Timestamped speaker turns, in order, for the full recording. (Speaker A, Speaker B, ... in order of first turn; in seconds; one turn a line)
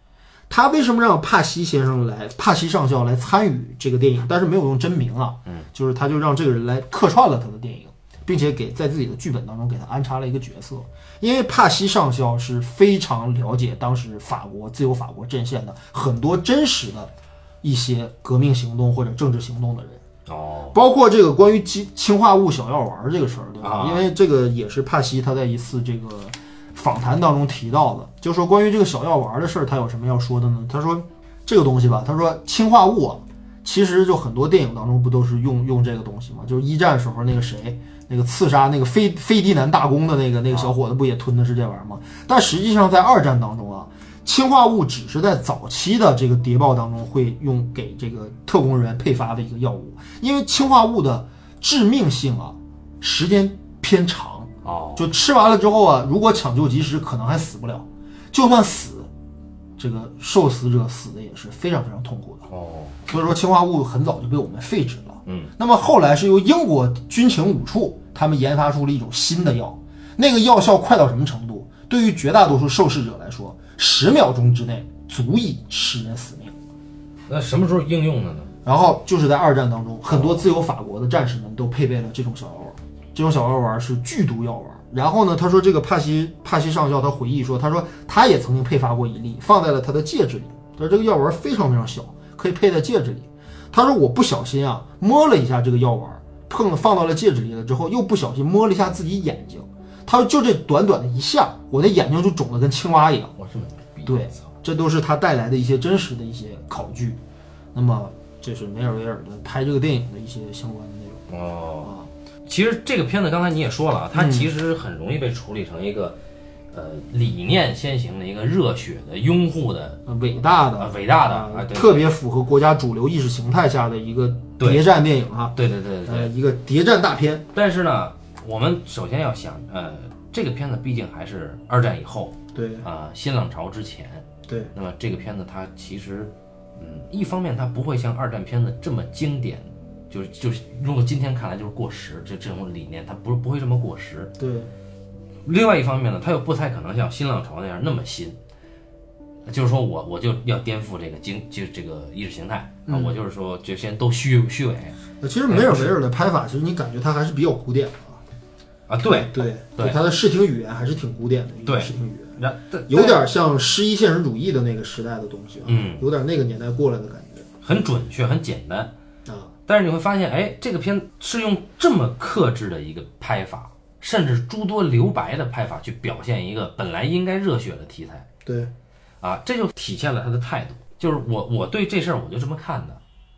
Speaker A: 0.5-20.0
Speaker B: 20.2-20.8
Speaker A: 20.7-59.1
Speaker B: 23.6-24.1
Speaker B: 54.6-55.1
Speaker A: 59.8-62.5
Speaker B: 62.5-63.0
Speaker A: 63.1-76.5
Speaker B: 65.2-65.5
Speaker B: 77.3-78.5
Speaker A: 78.6-103.3
Speaker B: 80.1-80.5
Speaker B: 103.4-104.5
Speaker A: 104.0-107.2
Speaker A: 107.7-111.2
Speaker B: 111.3-111.9
Speaker A: 111.8-112.1
Speaker B: 112.5-116.2
Speaker A: 114.1-114.5
Speaker B: 116.7-120.0
Speaker A: 120.0-127.5
Speaker B: 120.8-122.1
Speaker B: 124.6-124.8
Speaker B: 125.5-126.3
Speaker B: 127.5-144.3
Speaker A: 132.5-132.8
Speaker A: 134.4-134.7
Speaker A: 144.4-144.7
Speaker B: 145.4-148.4
Speaker B: 149.5-155.0
Speaker A: 152.9-153.1
Speaker A: 155.2-158.2
Speaker B: 155.5-155.9
Speaker B: 158.9-160.0
Speaker A: 159.0-162.3
Speaker B: 161.7-163.3
Speaker A: 162.9-167.4
Speaker B: 165.6-166.1
Speaker B: 167.6-168.9
Speaker A: 169.2-169.5
Speaker B: 169.7-178.3
Speaker A: 178.4-178.7
Speaker B: 179.2-183.0